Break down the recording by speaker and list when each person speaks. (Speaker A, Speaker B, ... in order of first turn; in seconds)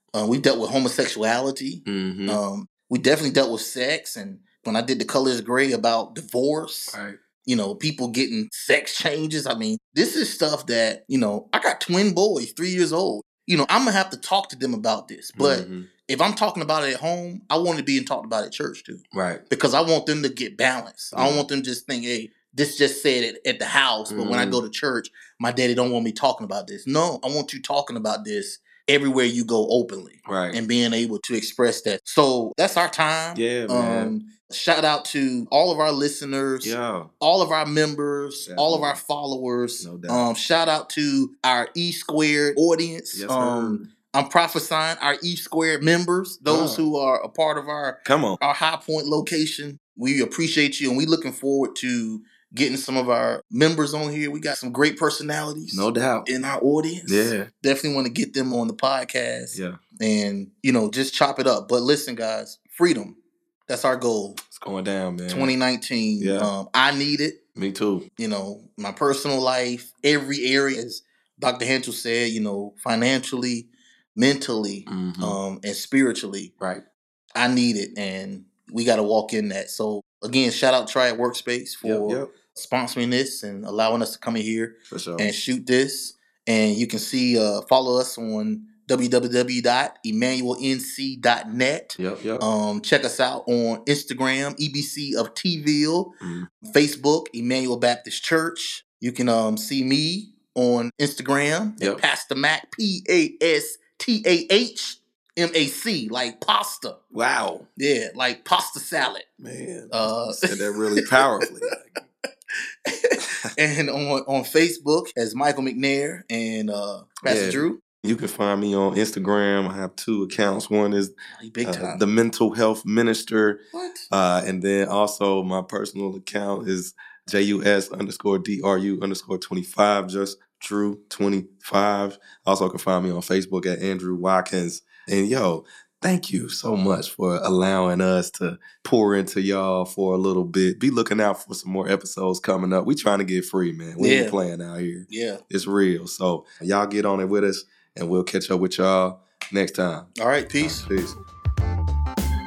Speaker A: 0.1-63.2, 63.7-64.4, 65.3-67.4, 68.2-76.5, 77.3-107.0, 107.8-109.3, 109.9-111.5, 112.8-117.8, 121.3-122.0, 123.7-124.1, 144.0-144.3, 145.1-145.4, 150.2-150.8
Speaker B: 1.9-2.4, 6.9-7.2, 15.3-15.9, 19.1-19.4, 21.1-21.4, 24.1-24.6, 30.2-30.6, 33.3-34.1, 36.6-37.1, 38.4-39.0, 39.8-40.3, 43.1-43.9, 46.5-46.8, 48.0-48.4, 55.7-56.3, 57.1-57.5, 59.5-59.8, 64.5-65.5, 66.2-66.5, 67.5-68.1, 74.9-75.4, 81.8-82.3, 84.9-85.3, 92.0-92.5, 96.2-96.5, 101.8-102.0, 107.1-107.7, 109.4-112.0, 117.2-121.1, 121.6-123.6, 124.1-151.2